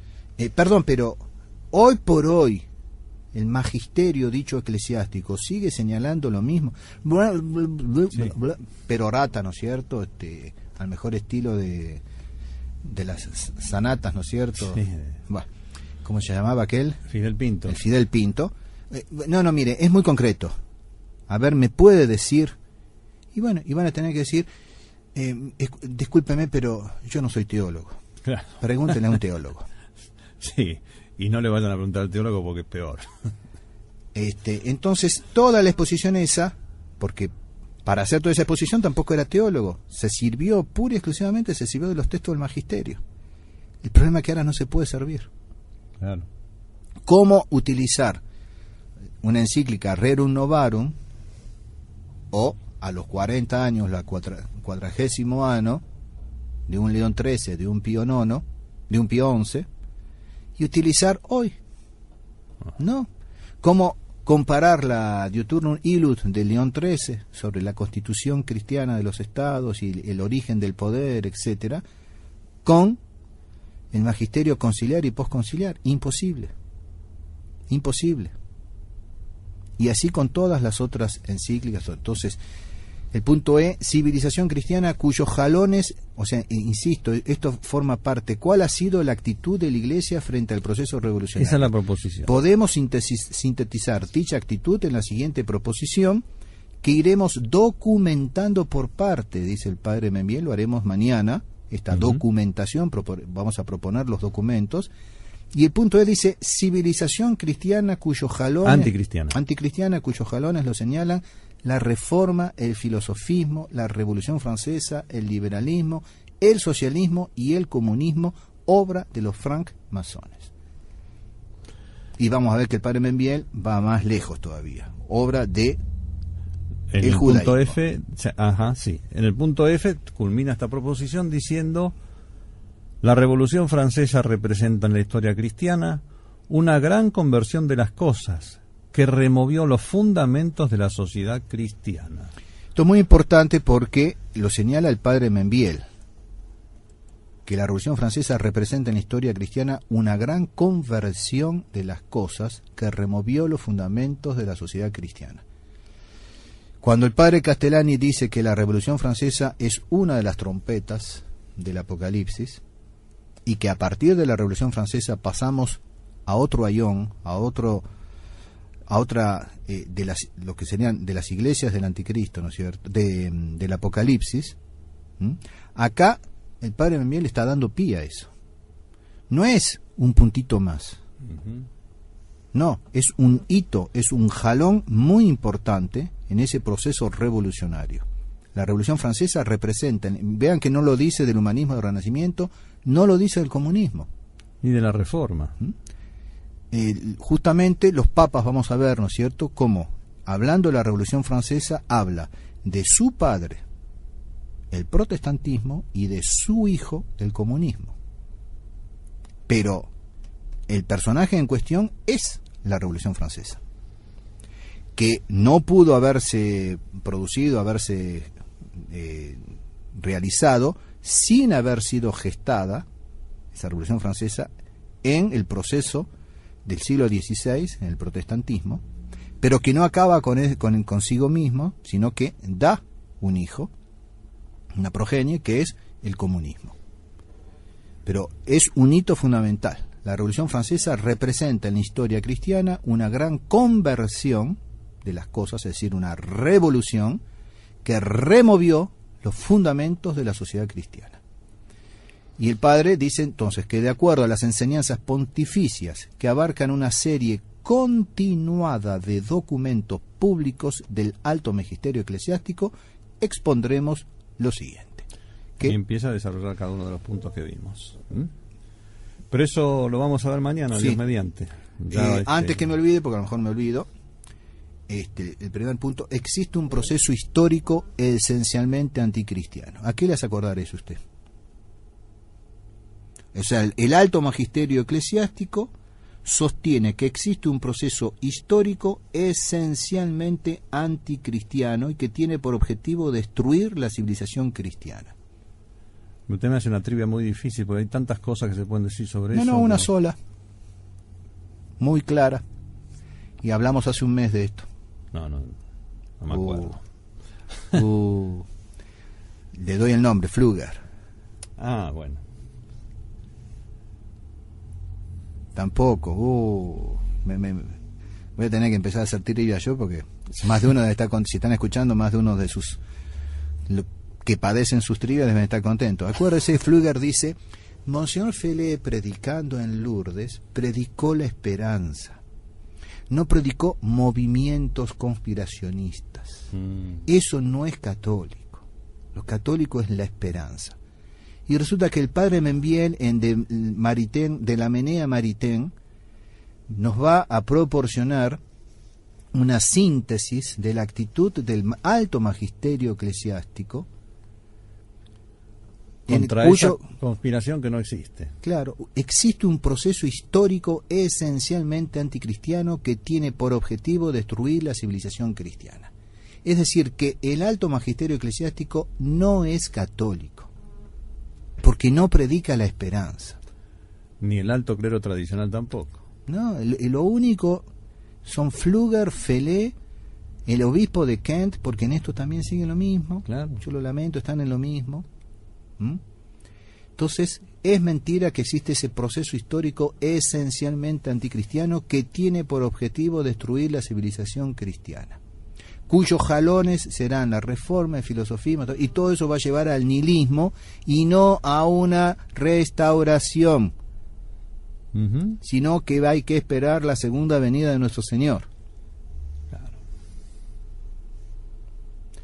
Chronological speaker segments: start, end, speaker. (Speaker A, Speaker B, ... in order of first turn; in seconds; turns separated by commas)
Speaker A: 0.4-2.6, Speaker A: 3.3-12.0, Speaker A: 12.8-15.5, Speaker B: 14.7-15.1, Speaker A: 16.0-17.0, Speaker B: 17.1-17.8, Speaker A: 17.7-20.5, Speaker A: 21.3-22.5, Speaker A: 23.3-24.5, Speaker A: 25.1-28.0, Speaker A: 28.6-29.7, Speaker B: 30.4-33.0, Speaker A: 34.1-37.3, Speaker A: 37.8-43.0, Speaker A: 43.8-45.3, Speaker B: 46.0-46.3, Speaker A: 47.0-48.2, Speaker A: 49.2-50.9, Speaker A: 52.3-55.8, Speaker A: 56.7-59.7, Speaker A: 60.6-61.6, Speaker A: 62.8-63.1, Speaker A: 63.6-71.8, Speaker A: 72.6-73.0, Speaker A: 73.9-76.5, Speaker A: 77.7-78.3, Speaker A: 79.8-82.4, Speaker A: 83.1-91.7, Speaker B: 91.4-92.3, Speaker A: 92.2-96.2, Speaker A: 96.8-104.9, Speaker B: 101.9-102.2, Speaker A: 105.5-120.5, Speaker B: 108.6-109.4, Speaker A: 122.2-125.8, Speaker B: 126.9-131.9, Speaker A: 127.0-127.7, Speaker B: 133.0-142.3, Speaker A: 142.7-145.8, Speaker A: 147.4-155.4, Speaker A: 156.8-162.6, Speaker A: 163.4-167.8, Speaker A: 168.9-174.6, Speaker A: 175.2-178.3, Speaker A: 179.3-181.0, Speaker B: 181.3-181.6, Speaker A: 182.5-194.1, Speaker B: 194.6-195.5, Speaker A: 196.7-203.6, Speaker A: 204.7-207.9, Speaker A: 209.5-209.9, Speaker A: 210.7-213.6, Speaker A: 214.9-222.9, Speaker A: 223.5-224.5, Speaker A: 225.0-226.1, Speaker A: 226.6-228.8, Speaker A: 229.4-233.7, Speaker A: 234.7-236.8, Speaker A: 238.1-247.2, Speaker A: 247.8-251.2, Speaker A: 252.4-265.0, Speaker B: 265.6-268.3, Speaker B: 269.3-272.6, Speaker A: 271.9-273.9, Speaker A: 274.9-281.0, Speaker A: 283.3-285.7, Speaker A: 286.2-295.1, Speaker B: 296.3-299.9, Speaker A: 299.3-300.2, Speaker A: 301.8-302.4, Speaker A: 303.4-304.7, Speaker B: 305.1-305.6, Speaker B: 306.2-306.8, Speaker A: 306.3-306.7, Speaker B: 307.5-307.8, Speaker A: 307.7-308.5, Speaker A: 309.5-310.8, Speaker B: 311.6-312.2, Speaker A: 315.5-317.8, Speaker A: 318.4-322.8, Speaker A: 323.7-332.2, Speaker A: 333.1-336.5, Speaker B: 336.5-337.0, Speaker A: 337.1-340.8, Speaker A: 341.5-345.7, Speaker A: 346.7-348.4, Speaker A: 349.3-353.9, Speaker A: 356.1-356.8, Speaker B: 356.1-358.3, Speaker A: 358.4-365.9, Speaker A: 366.4-370.5, Speaker A: 371.6-373.4, Speaker B: 374.2-376.0, Speaker A: 376.3-377.6, Speaker A: 378.2-379.7, Speaker A: 380.4-385.1, Speaker B: 383.2-383.6, Speaker A: 387.0-395.2, Speaker A: 395.9-403.7, Speaker B: 404.9-405.4, Speaker A: 405.4-408.5, Speaker B: 409.5-409.8